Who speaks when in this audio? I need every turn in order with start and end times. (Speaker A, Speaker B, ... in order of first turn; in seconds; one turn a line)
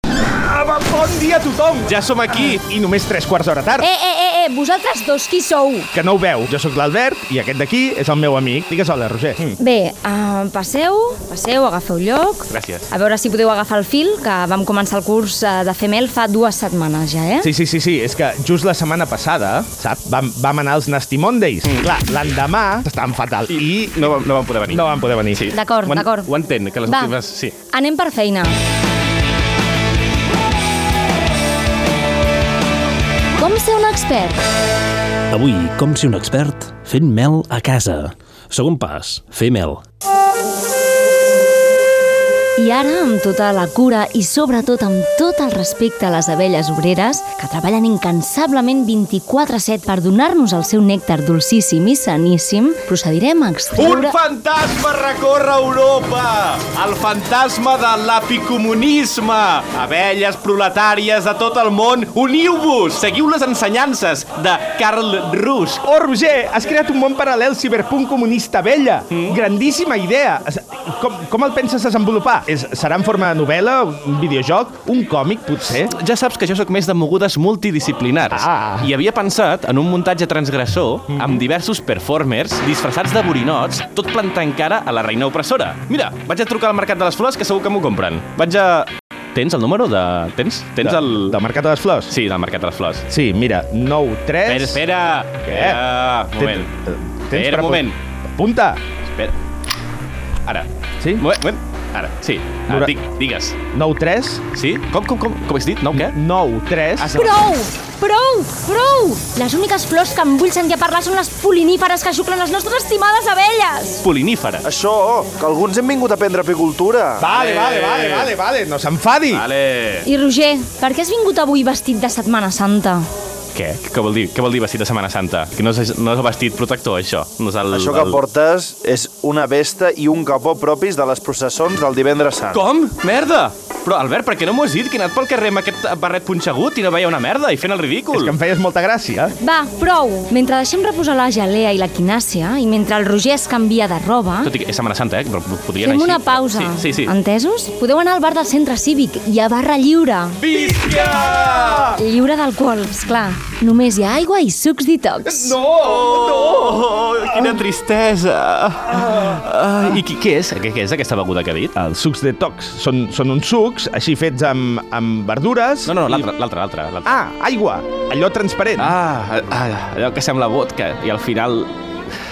Speaker A: 0.3-1.9
Speaker B: 1.9-2.6
Speaker A: 2.4-3.9
Speaker C: 3.8-5.9
Speaker A: 5.9-9.6
Speaker C: 9.6-17.5
Speaker B: 12.5-12.9
Speaker A: 17.4-24.1
Speaker B: 23.5-27.5
Speaker A: 24.7-25.5
Speaker C: 25.5-26.3
Speaker C: 26.9-27.1
Speaker C: 27.7-28.6
Speaker C: 33.4-34.4
Speaker D: 35.3-39.8
Speaker C: 42.6-54.1
Speaker B: 53.8-65.8
Speaker A: 65.8-75.9
Speaker B: 69.1-69.4
Speaker B: 75.8-91.4
Speaker A: 78.3-78.9
Speaker A: 90.8-92.1
Speaker B: 92.1-93.0
Speaker A: 93.1-94.8
Speaker B: 94.5-96.7
Speaker A: 95.5-95.8
Speaker A: 96.4-98.8
Speaker B: 97.3-98.0
Speaker B: 99.1-99.3
Speaker B: 101.2-103.6
Speaker A: 102.7-102.9
Speaker A: 103.7-104.4
Speaker B: 104.5-106.1
Speaker A: 105.9-107.1
Speaker B: 107.0-107.4
Speaker C: 107.2-114.0
Speaker B: 114.0-114.6
Speaker E: 114.6-117.3
Speaker A: 117.2-119.4
Speaker B: 117.3-118.3
Speaker B: 119.3-120.1
Speaker C: 120.0-123.0
Speaker B: 123.5-128.2
Speaker E: 127.7-132.6
Speaker B: 132.5-138.3
Speaker A: 138.1-139.3
Speaker C: 139.4-144.5
Speaker B: 144.4-147.1
Speaker C: 145.8-150.4
Speaker B: 150.4-152.0
Speaker C: 152.0-155.6
Speaker B: 155.3-161.7
Speaker A: 161.8-166.1
Speaker B: 165.8-167.1
Speaker A: 167.0-168.9
Speaker B: 168.8-171.7